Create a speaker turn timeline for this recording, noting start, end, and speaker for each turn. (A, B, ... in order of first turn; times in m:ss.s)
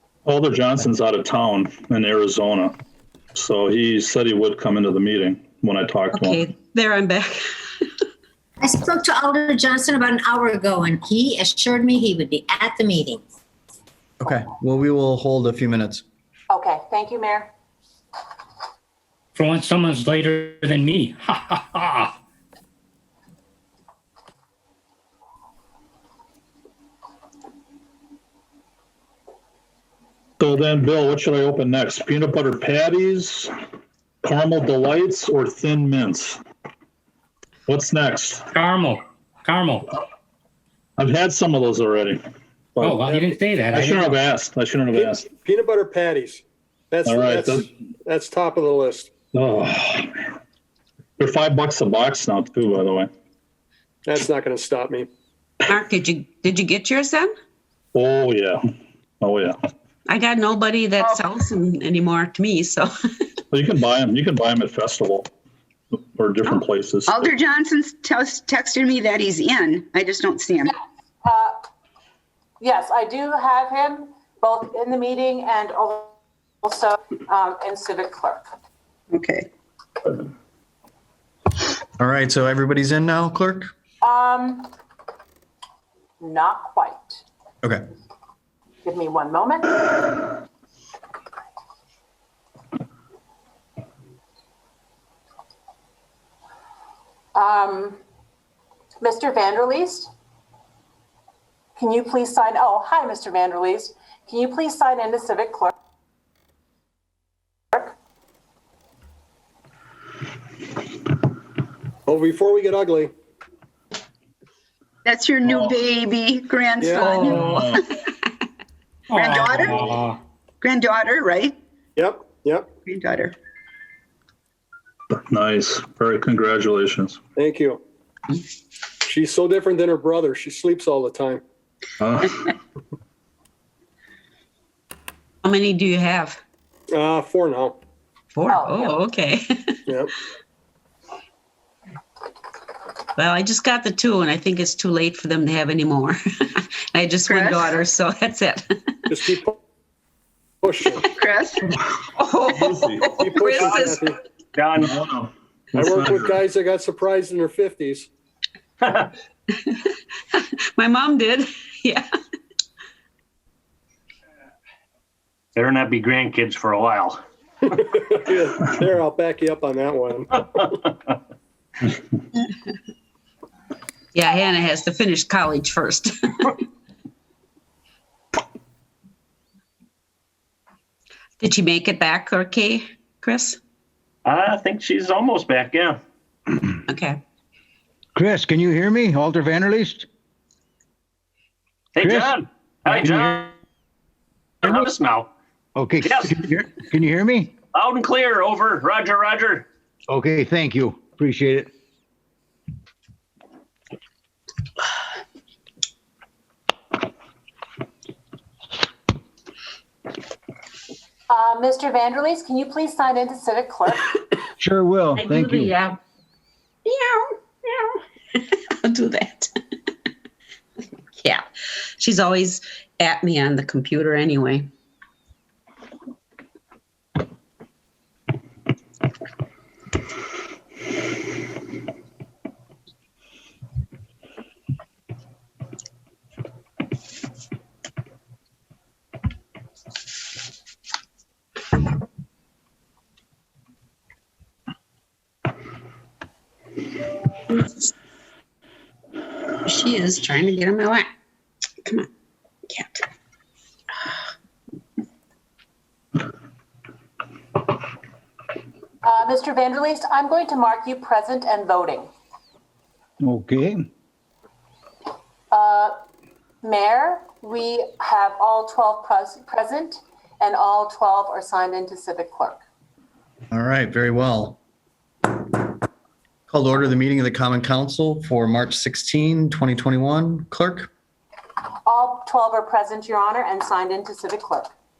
0:00.2-0:02.8 A
0:03.4-0:06.4 A
0:06.1-0:07.4 B
0:08.6-0:13.2 C
0:14.2-0:16.0 D
0:16.5-0:17.5 E
0:19.4-0:22.1 F
0:30.4-0:33.5 A
0:34.2-0:36.4 A
0:37.7-0:38.5 A
0:38.5-0:39.9 F
0:41.0-0:42.2 A
0:42.8-0:43.1 A
0:42.8-0:44.2 F
0:43.1-0:43.3 G
0:43.7-0:45.3 A
0:44.9-0:49.1 G
0:47.0-0:47.7 A
0:49.3-0:50.2 A
0:51.2-0:53.1 A
0:54.1-0:55.1 G
0:55.7-0:57.3 B
0:57.9-0:58.6 A
0:59.2-0:59.5 A
1:00.1-1:02.9 B
1:03.5-1:05.3 A
1:06.0-1:07.3 A
1:07.1-1:10.8 H
1:10.6-1:11.6 E
1:12.6-1:18.4 E
1:19.1-1:19.5 H
1:22.0-1:23.7 D
1:24.0-1:24.7 E
1:26.2-1:27.2 E
1:28.8-1:29.9 E
1:37.3-1:38.0 E
1:39.0-1:40.1 E
1:41.8-1:45.7 E
1:52.1-1:53.1 G
1:55.0-1:57.8 H
1:55.4-1:55.8 A
1:56.8-1:57.6 G
1:57.0-1:57.4 B
1:57.1-1:57.7 F
1:57.4-1:57.8 A
1:59.1-2:00.2 F
1:59.1-2:00.0 H
2:00.6-2:01.6 H
2:02.0-2:02.8 G
2:02.8-2:03.4 H
2:05.3-2:07.2 A
2:07.4-2:07.8 G
2:09.0-2:11.4 G
2:12.0-2:12.4 A
2:15.4-2:16.4 B
2:16.9-2:17.8 G
2:18.3-2:19.4 B
2:18.5-2:19.0 E
2:19.9-2:20.1 G
2:23.2-2:26.2 B
2:26.9-2:28.6 B
2:27.3-2:27.7 H
2:29.1-2:29.6 G
2:30.6-2:31.1 G
2:31.2-2:31.6 H
2:32.2-2:34.0 B
2:32.5-2:33.1 A
2:33.2-2:34.2 G
2:34.5-2:35.0 I
2:34.8-2:36.4 A
2:35.8-2:38.1 G
2:38.8-2:39.1 I
2:40.3-2:42.0 B
2:45.6-2:47.2 I
2:47.7-2:50.3 G
2:50.4-2:51.0 I
2:54.1-2:56.6 B
3:01.4-3:03.6 B
3:04.2-3:06.0 I
3:06.9-3:07.2 B
3:08.2-3:09.9 J
3:12.0-3:13.6 I
3:14.6-3:15.3 I
3:16.0-3:16.5 I
3:17.1-3:17.4 J
3:17.7-3:19.7 I
3:20.1-3:21.6 J
3:31.3-3:34.1 E
3:34.6-3:35.7 J
3:35.2-3:36.0 B
3:36.9-3:39.5 B
3:41.2-3:41.4 B
3:42.0-3:44.7 B
4:09.6-4:11.1 B
4:12.7-4:13.0 B
4:19.0-4:22.1 E
4:23.2-4:23.8 J
4:25.5-4:25.9 E
4:26.6-4:32.6 E
4:33.5-4:34.6 D
4:36.5-4:40.9 D
4:41.9-4:44.7 E